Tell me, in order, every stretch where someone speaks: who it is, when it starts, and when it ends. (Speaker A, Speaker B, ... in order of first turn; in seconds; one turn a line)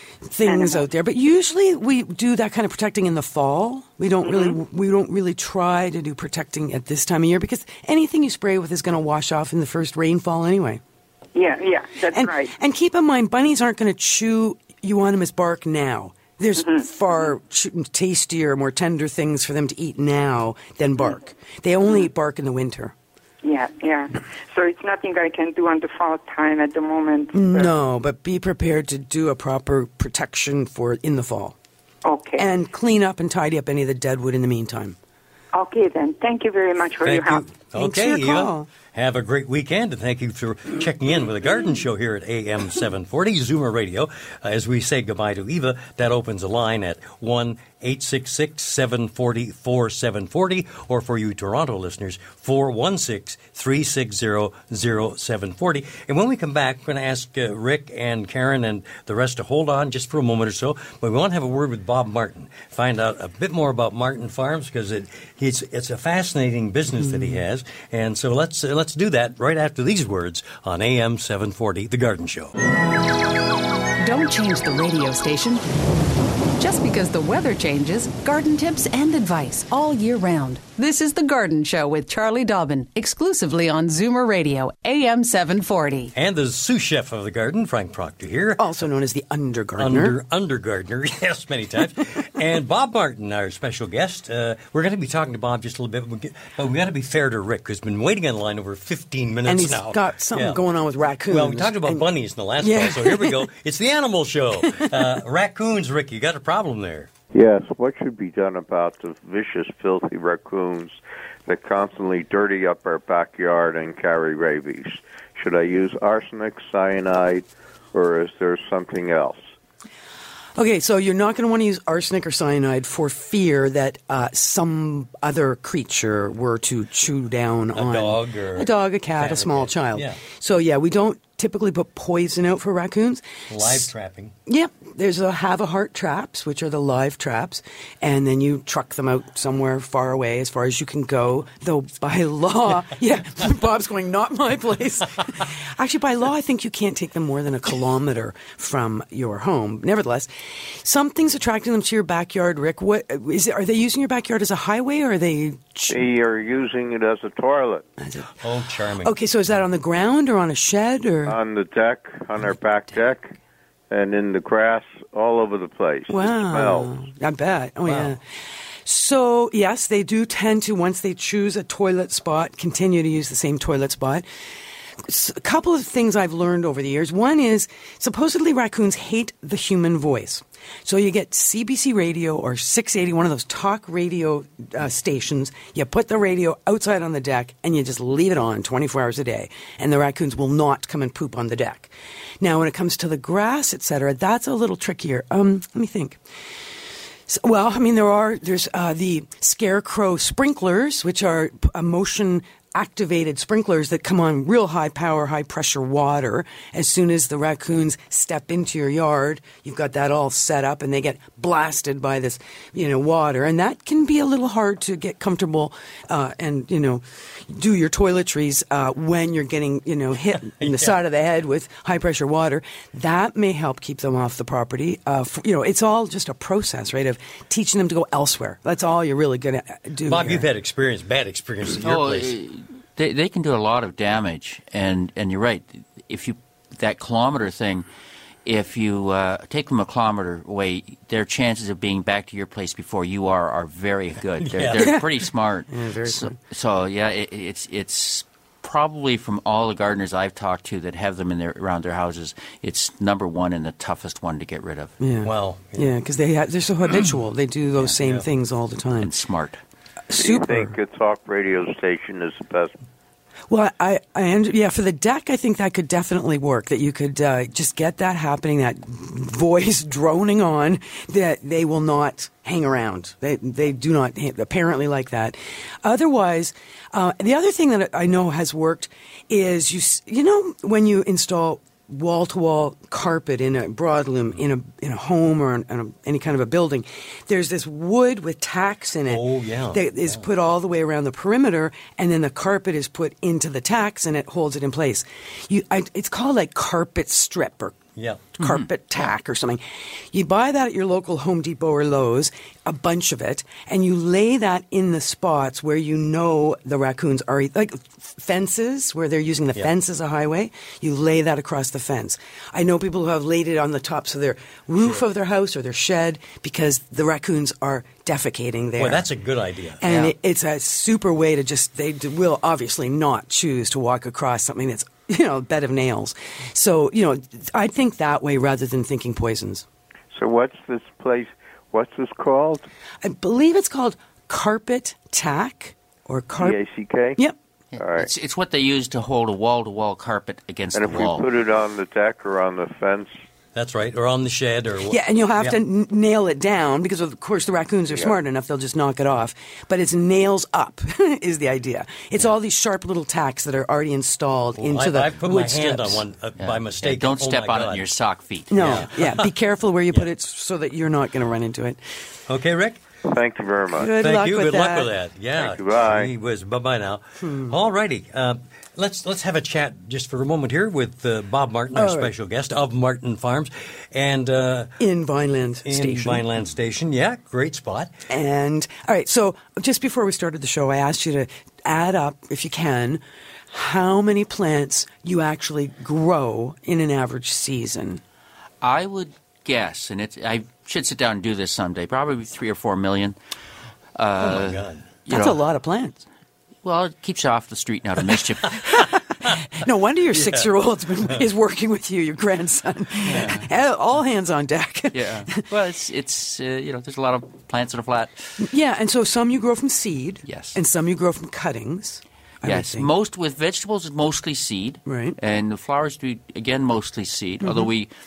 Speaker A: 0.3-10.8
Speaker B: 0.5-0.8
Speaker B: 4.2-4.6
Speaker B: 11.3-12.6
Speaker A: 12.1-22.9
Speaker B: 16.6-16.9
Speaker B: 23.4-27.7
Speaker A: 27.3-31.6
Speaker B: 32.0-32.5
Speaker A: 32.4-35.0
Speaker B: 35.5-37.5
Speaker C: 37.0-72.5
Speaker A: 37.8-38.7
Speaker A: 67.0-67.4
Speaker D: 74.0-75.6
Speaker D: 76.6-86.1
Speaker C: 86.2-88.6
Speaker A: 88.6-90.2
Speaker C: 89.8-100.6
Speaker A: 99.5-102.1
Speaker C: 101.3-107.1
Speaker A: 102.6-103.5
Speaker A: 104.6-105.1
Speaker E: 107.3-119.4
Speaker A: 120.6-133.9
Speaker C: 127.7-130.2
Speaker C: 133.5-134.3
Speaker A: 134.5-156.1
Speaker E: 155.9-157.8
Speaker A: 158.0-158.3
Speaker C: 158.4-159.1
Speaker A: 159.0-161.4
Speaker E: 161.3-163.3
Speaker E: 163.9-166.9
Speaker A: 166.1-168.2
Speaker C: 167.9-168.2
Speaker A: 168.8-174.3
Speaker A: 175.0-196.2
Speaker A: 197.3-230.5
Speaker C: 220.6-221.0
Speaker C: 230.1-232.3
Speaker F: 231.8-237.9
Speaker F: 238.5-254.9
Speaker C: 244.5-245.0
Speaker A: 244.8-245.1
Speaker A: 245.7-246.3
Speaker A: 255.0-259.1
Speaker C: 255.2-255.9
Speaker F: 259.0-259.6
Speaker A: 260.1-260.8
Speaker E: 260.1-262.8
Speaker A: 263.5-297.8
Speaker C: 289.1-290.3
Speaker C: 298.0-298.3
Speaker A: 298.4-299.6
Speaker F: 298.4-298.7
Speaker A: 300.1-319.0
Speaker C: 318.8-320.1
Speaker A: 319.8-329.6
Speaker E: 330.1-332.7
Speaker A: 333.0-336.6
Speaker E: 336.4-337.2
Speaker F: 337.7-341.3
Speaker E: 337.8-338.1
Speaker E: 340.7-343.2
Speaker C: 343.6-345.6
Speaker A: 344.8-356.1
Speaker C: 354.6-357.9
Speaker F: 356.4-358.9
Speaker A: 358.5-361.8
Speaker C: 358.6-359.2
Speaker C: 362.3-362.8
Speaker E: 363.1-363.9
Speaker A: 363.8-364.9
Speaker C: 363.9-374.7
Speaker E: 365.4-366.1
Speaker A: 367.2-367.6
Speaker A: 371.7-372.1
Speaker A: 374.8-376.2
Speaker C: 375.7-377.9
Speaker A: 378.1-388.0
Speaker F: 388.6-393.2
Speaker F: 394.0-395.4
Speaker C: 394.2-394.9
Speaker A: 395.1-396.0
Speaker F: 396.6-398.7
Speaker A: 399.6-405.4
Speaker C: 400.1-400.5
Speaker C: 403.1-403.4
Speaker F: 404.9-408.4
Speaker A: 408.4-412.9
Speaker F: 410.3-410.6
Speaker F: 412.4-417.9
Speaker A: 414.9-415.2
Speaker A: 417.4-417.7